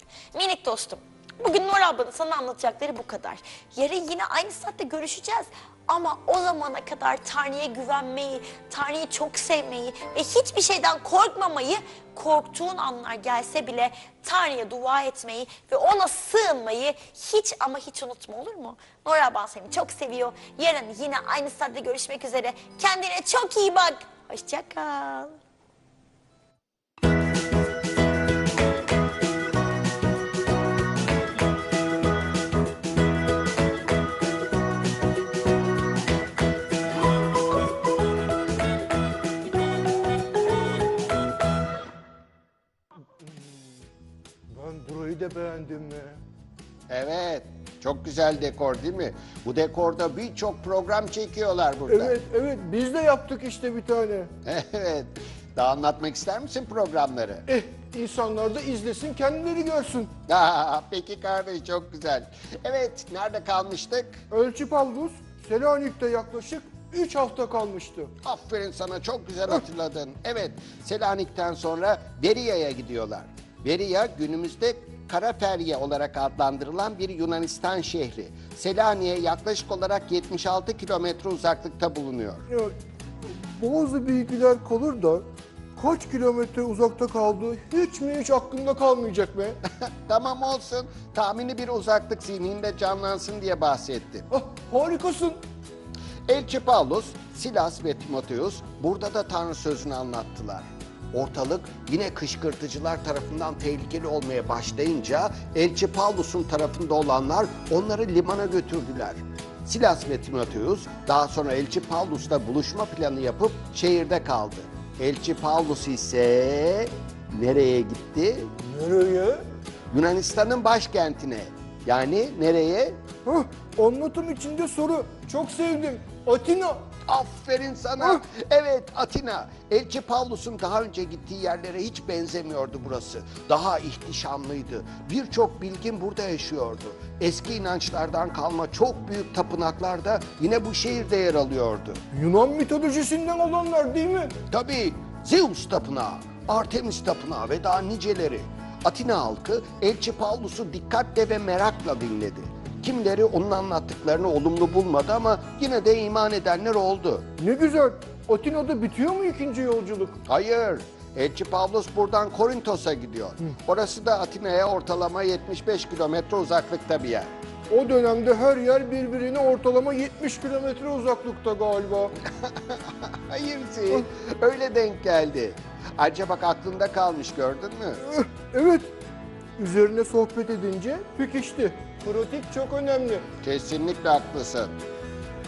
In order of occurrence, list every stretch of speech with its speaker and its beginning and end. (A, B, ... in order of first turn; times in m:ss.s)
0:00.3-0:25.4 A
0:44.5-0:46.2 B
0:46.9-0:52.2 C
0:51.9-0:54.3 B
0:54.4-0:57.4 C
0:57.5-1:00.1 B
1:00.3-1:04.2 C
1:04.3-1:08.1 B
1:08.2-1:22.4 C
1:23.3-1:25.2 B
1:25.8-1:29.6 B
1:30.1-1:34.3 C
1:34.3-1:35.4 B
1:36.3-1:58.5 C
1:58.6-1:59.4 B
1:59.9-2:03.0 C
2:03.3-2:06.9 B
2:07.0-2:22.0 C
2:22.1-2:24.4 B
2:24.5-2:37.3 C
2:37.4-2:40.2 B
2:40.3-2:47.3 C
2:47.7-2:52.2 B
2:53.3-2:58.0 C
2:58.0-2:58.9 B
2:59.6-3:03.2 B
3:03.4-3:04.8 C